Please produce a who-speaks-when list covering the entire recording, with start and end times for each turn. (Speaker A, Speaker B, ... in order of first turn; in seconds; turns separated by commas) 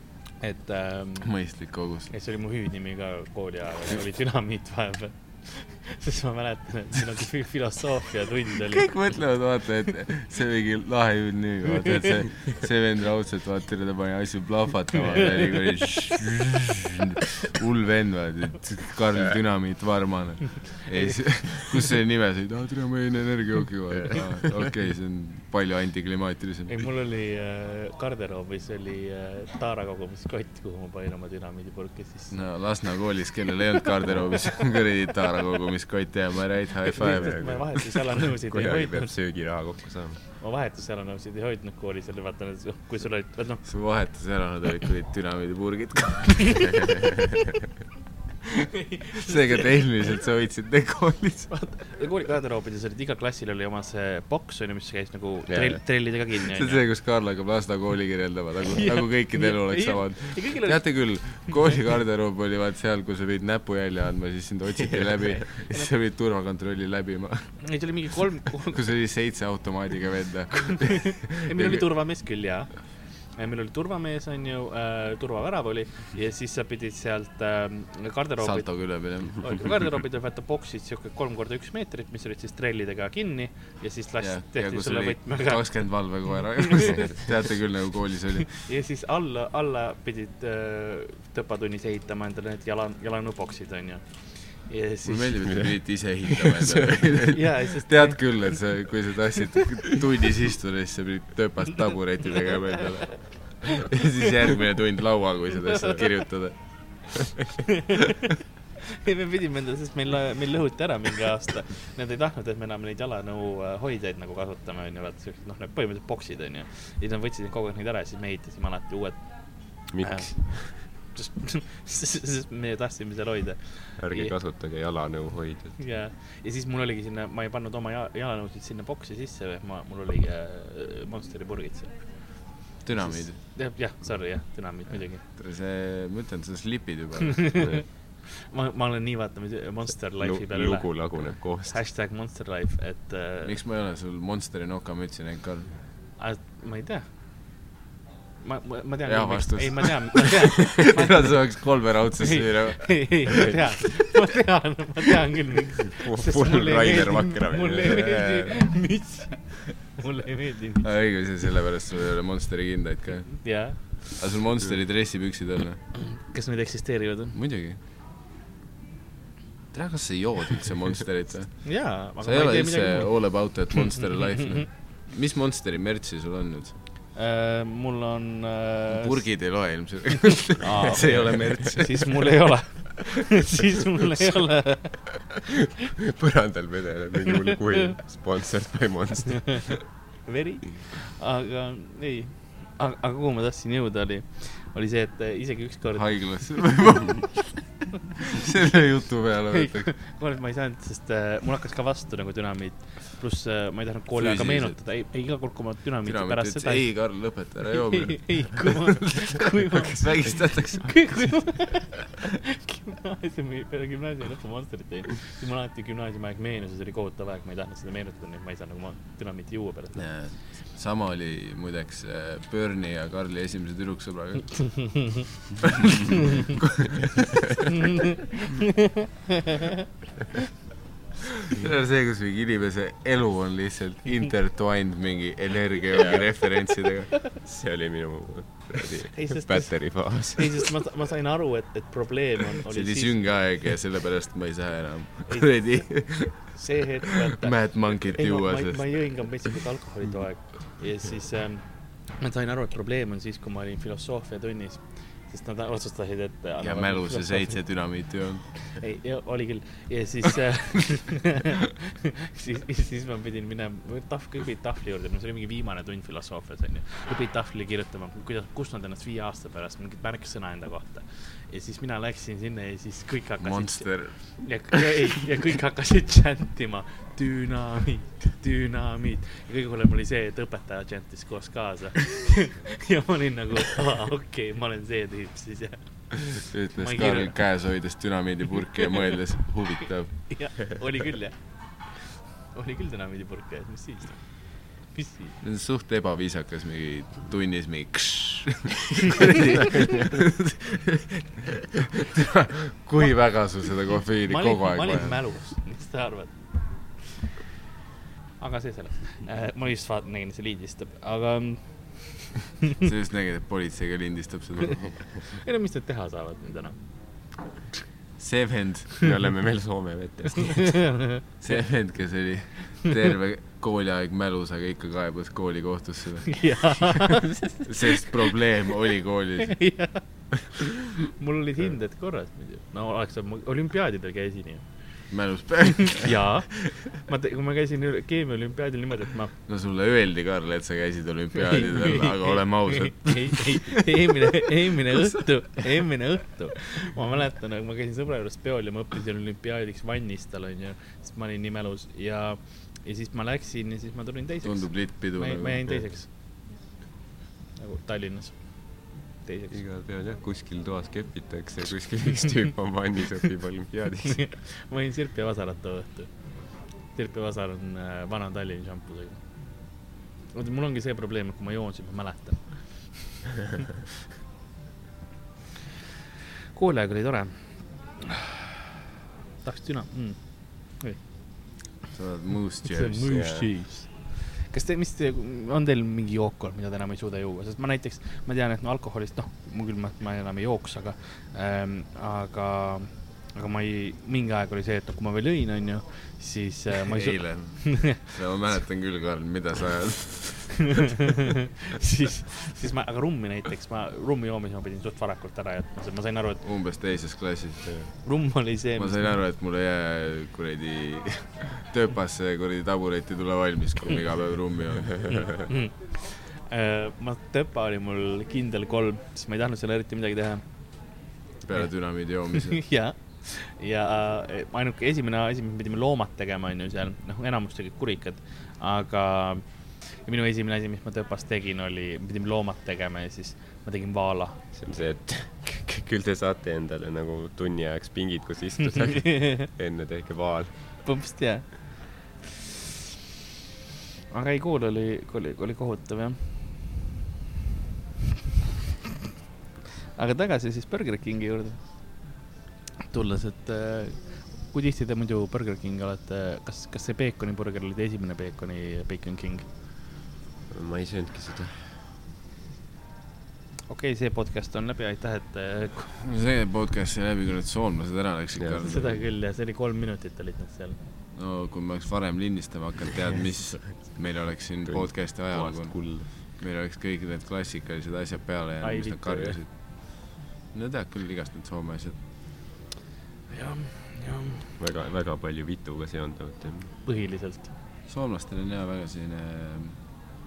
Speaker A: 0.4-1.3, Speaker B: 1.2-2.1, Speaker A: 2.1-8.9, Speaker B: 8.7-26.8, Speaker A: 26.7-32.3, Speaker B: 32.3-37.6, Speaker A: 37.0-39.1, Speaker C: 37.0-40.2, Speaker A: 40.4-43.6, Speaker B: 43.6-47.2, Speaker A: 48.9-49.4, Speaker B: 49.1-51.5, Speaker A: 51.5-56.8, Speaker C: 55.5-55.8, Speaker B: 56.5-67.8, Speaker A: 58.7-60.8, Speaker A: 67.6-68.8, Speaker B: 68.7-71.9, Speaker A: 70.8-72.8, Speaker A: 73.4-78.7, Speaker B: 78.4-79.9, Speaker A: 79.3-85.7, Speaker B: 84.2-88.7, Speaker A: 86.6-87.0, Speaker A: 88.6-95.3, Speaker B: 95.1-107.2, Speaker C: 96.3-97.0, Speaker A: 97.3-98.2, Speaker A: 107.9-108.1, Speaker A: 108.9-124.3, Speaker C: 119.9-120.8, Speaker C: 124.0-125.8, Speaker A: 125.8-132.0, Speaker B: 132.8-133.4, Speaker A: 133.1-135.2, Speaker B: 135.2-137.8, Speaker A: 137.4-143.5, Speaker C: 140.2-141.8, Speaker B: 143.4-145.7, Speaker A: 146.2-147.1, Speaker A: 148.4-151.3, Speaker B: 149.1-153.5, Speaker A: 152.2-160.9, Speaker C: 155.9-158.7, Speaker B: 160.8-165.8, Speaker A: 163.4-164.2, Speaker A: 165.9-167.4, Speaker B: 167.3-167.8, Speaker B: 169.7-176.8, Speaker A: 171.6-173.1, Speaker A: 177.1-179.2, Speaker B: 178.9-182.3, Speaker A: 180.6-185.2, Speaker C: 186.0-189.8, Speaker A: 189.7-196.4, Speaker B: 196.0-197.5, Speaker B: 198.3-199.9, Speaker A: 199.6-206.9, Speaker B: 204.2-204.8, Speaker B: 206.1-211.8, Speaker A: 207.7-220.1, Speaker B: 220.0-227.2, Speaker A: 228.0-228.7, Speaker B: 231.5-237.3, Speaker C: 235.9-236.3, Speaker C: 237.4-240.7, Speaker A: 239.1-243.1, Speaker B: 242.7-246.6, Speaker A: 245.3-257.6, Speaker B: 247.4-249.5, Speaker B: 256.6-258.7, Speaker A: 258.6-287.3, Speaker B: 273.4-274.9, Speaker B: 286.4-290.6, Speaker A: 290.3-294.2, Speaker A: 294.9-295.4, Speaker B: 295.4-305.2, Speaker A: 304.3-306.3, Speaker A: 308.4-312.4, Speaker B: 312.8-315.1, Speaker A: 315.2-316.8, Speaker B: 318.2-319.1, Speaker C: 319.0-320.9, Speaker A: 320.5-321.2, Speaker B: 321.4-326.9, Speaker A: 326.3-327.3, Speaker B: 327.6-329.7, Speaker A: 329.5-330.0, Speaker A: 330.6-334.7, Speaker B: 335.1-336.2, Speaker A: 335.8-339.3, Speaker B: 339.5-343.8, Speaker A: 341.6-356.1, Speaker B: 354.4-355.9, Speaker A: 357.6-359.6, Speaker C: 359.5-364.2, Speaker A: 364.1-366.1, Speaker A: 366.9-369.2, Speaker A: 370.3-372.8, Speaker A: 376.5-378.6, Speaker A: 379.4-381.0, Speaker B: 381.9-383.2, Speaker A: 382.7-398.0, Speaker C: 383.1-383.5, Speaker B: 396.8-401.0, Speaker A: 400.7-406.4, Speaker B: 406.4-408.1, Speaker A: 408.0-409.1, Speaker B: 408.8-415.4, Speaker A: 415.1-420.4, Speaker B: 421.4-422.6, Speaker A: 422.4-434.4, Speaker C: 434.5-440.5, Speaker A: 438.9-439.5, Speaker A: 440.8-441.9, Speaker A: 444.1-446.2, Speaker A: 450.0-451.6, Speaker A: 452.8-459.5, Speaker C: 460.5-461.7, Speaker A: 463.7-465.9, Speaker B: 466.0-469.0, Speaker A: 468.6-470.8, Speaker B: 471.2-482.0, Speaker C: 474.7-476.1, Speaker A: 478.6-479.4, Speaker A: 483.3-484.5, Speaker C: 484.6-486.7, Speaker A: 486.9-487.5, Speaker B: 487.9-489.8